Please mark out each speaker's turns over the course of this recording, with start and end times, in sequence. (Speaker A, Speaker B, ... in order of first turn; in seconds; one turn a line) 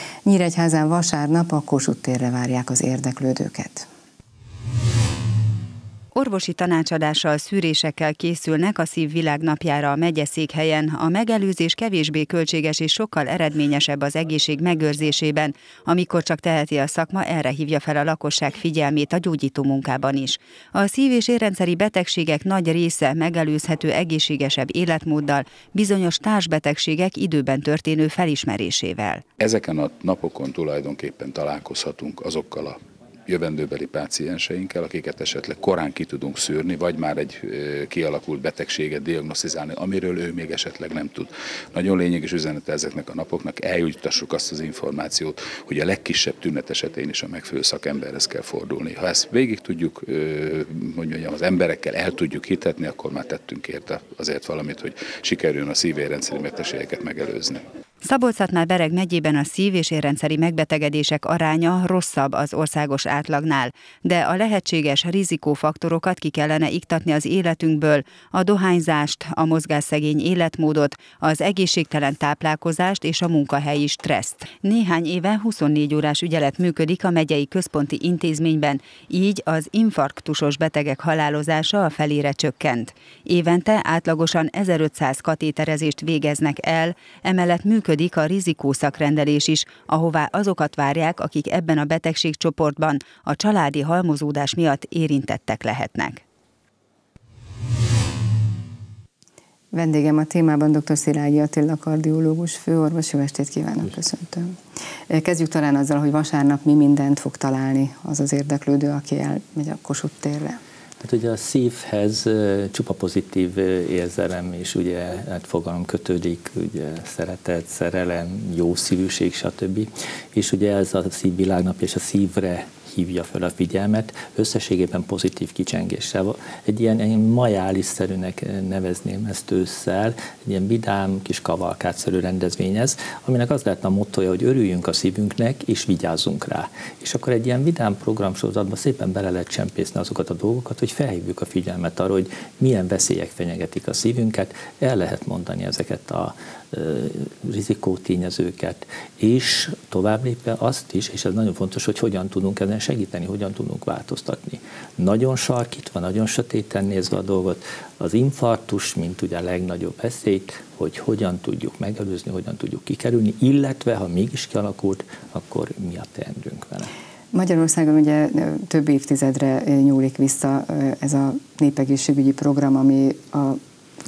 Speaker A: 0.2-3.9
Speaker B: 6.1-29.2
Speaker C: 29.4-32.8
Speaker C: 33.3-57.6
Speaker B: 58.0-96.2
Speaker A: 99.7-104.5
Speaker A: 105.1-110.6
Speaker D: 111.0-166.9
Speaker A: 167.3-173.6